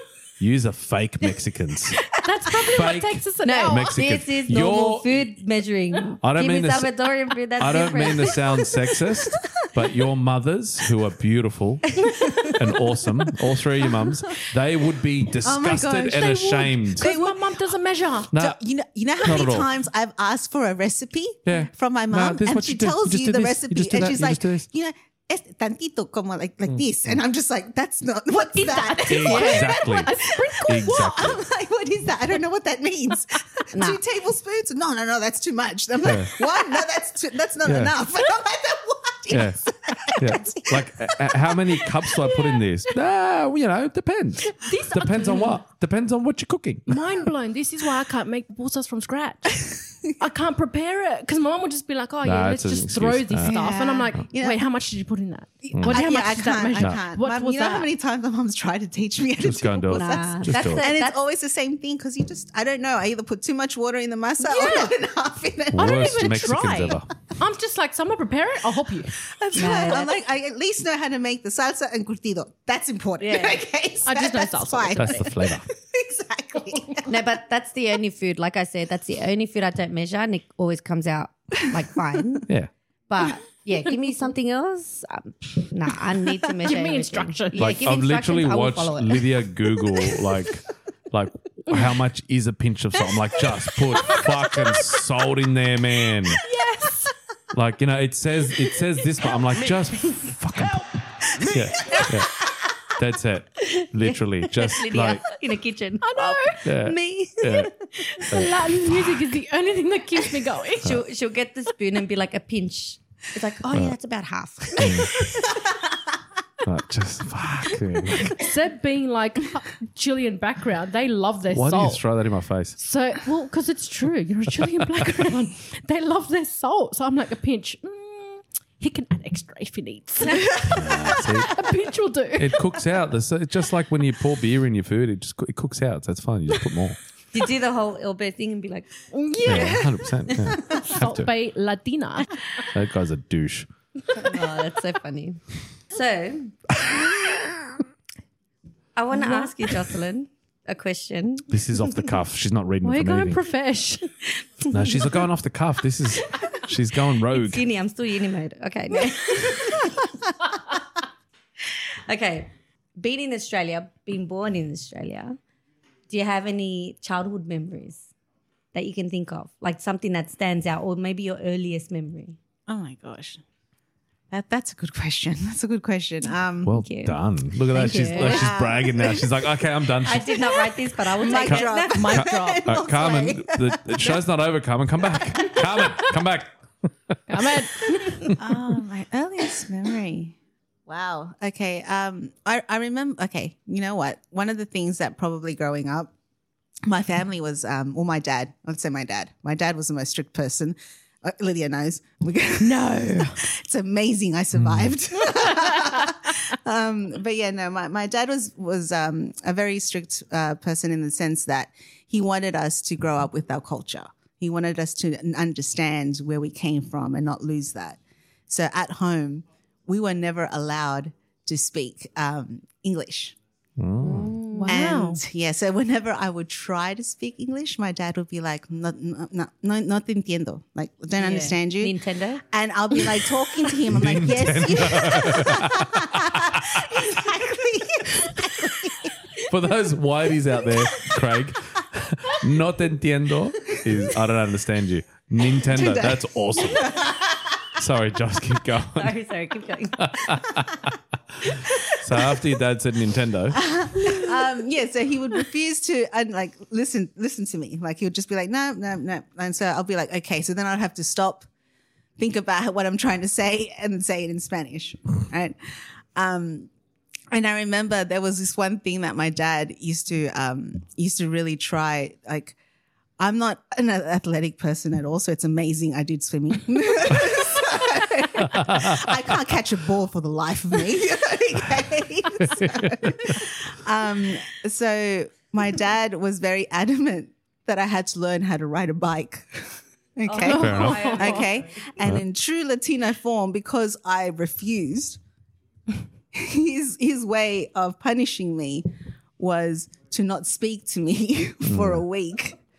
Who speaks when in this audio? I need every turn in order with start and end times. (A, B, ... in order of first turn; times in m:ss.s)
0:00.4-0:02.0 A
0:02.1-0:04.0 B
0:02.6-0:05.2 A
0:03.4-0:08.6 C
0:06.2-0:06.9 A
0:07.6-0:17.0 A
0:15.4-0:17.4 D
0:16.1-0:18.3 B
0:18.3-0:18.6 A
0:18.3-0:42.3 D
0:19.2-0:19.7 A
0:21.4-0:24.6 A
0:28.3-0:31.3 B
0:29.1-0:30.1 A
0:30.6-0:31.4 A
0:33.7-0:34.0 C
0:36.0-0:36.3 A
0:37.6-0:37.9 A
0:39.3-0:47.0 A
0:44.5-0:45.6 B
0:46.9-0:57.9 B
0:52.2-0:53.5 A
0:53.4-0:54.6 D
0:55.6-1:06.4 D
0:55.7-0:56.0 A
0:59.4-1:00.8 A
0:59.9-1:01.2 C
1:04.4-1:04.9 B
1:05.7-1:07.1 A
1:05.8-1:09.2 B
1:09.3-1:17.1 D
1:09.5-1:10.1 C
1:13.2-1:13.6 C
1:14.0-1:15.3 B
1:15.0-1:15.6 A
1:17.1-1:22.5 C
1:23.1-1:29.4 C
1:26.6-1:27.8 B
1:27.6-1:36.4 A
1:36.3-1:37.1 B
1:37.5-1:40.8 A
1:41.4-1:42.4 A
1:41.5-1:42.0 D
1:43.0-1:45.2 A
1:43.9-1:48.3 C
1:46.0-1:46.6 B
1:46.6-1:47.7 A
1:48.2-1:51.0 B
1:48.3-1:49.2 A
1:50.8-1:55.6 C
1:54.8-1:55.1 A
1:56.6-1:58.4 A
1:58.2-2:02.0 B
2:01.5-2:02.8 A
2:02.8-2:12.6 B
2:10.7-2:11.6 A
2:12.4-2:17.0 A
2:17.3-2:19.7 C
2:19.1-2:19.9 B
2:19.4-2:21.3 A
2:20.6-2:22.3 B
2:22.7-2:23.7 A
2:24.1-2:25.4 C
2:25.9-2:26.9 C
2:28.9-2:32.0 C
2:29.2-2:29.5 B
2:31.5-2:33.4 A
2:32.8-2:34.1 B
2:34.7-2:37.6 A
2:34.7-2:35.0 C
2:37.3-2:40.0 C
2:42.1-2:45.4 C
2:46.1-2:48.1 C
2:48.7-2:52.4 C
2:52.7-2:53.4 D
2:54.3-2:56.7 D
2:56.6-3:00.4 A
2:56.7-2:58.5 C
2:57.8-2:59.3 D
3:00.0-3:02.1 C
3:00.3-3:04.2 D
3:01.4-3:06.5 A
3:01.9-3:02.7 B
3:05.1-3:05.9 D
3:07.3-3:08.4 B
3:08.3-3:10.3 D
3:10.9-3:16.1 D
3:16.8-3:43.4 D
3:22.6-3:23.4 B
3:24.6-3:24.9 A
3:25.4-3:26.0 B
3:43.8-3:44.3 A
3:44.0-3:44.9 C
3:44.5-3:45.2 B
3:44.6-3:52.0 D
3:51.2-3:52.4 C
3:52.5-3:59.3 D
3:53.9-3:57.0 A
3:59.5-4:07.1 A
4:05.6-4:07.4 D
4:07.8-4:09.1 A
4:08.9-4:10.3 C
4:10.0-4:13.7 A
4:13.5-4:21.5 D
4:22.2-4:25.5 D
4:26.2-4:26.7 D
4:27.3-4:32.6 D
4:33.2-4:55.2 D
4:38.4-4:39.2 A
4:42.4-4:43.5 A
4:50.2-4:51.9 C
4:50.4-4:51.4 B
4:50.6-4:51.0 A
4:56.3-4:58.8 D
4:59.4-5:02.6 D
5:01.6-5:02.0 A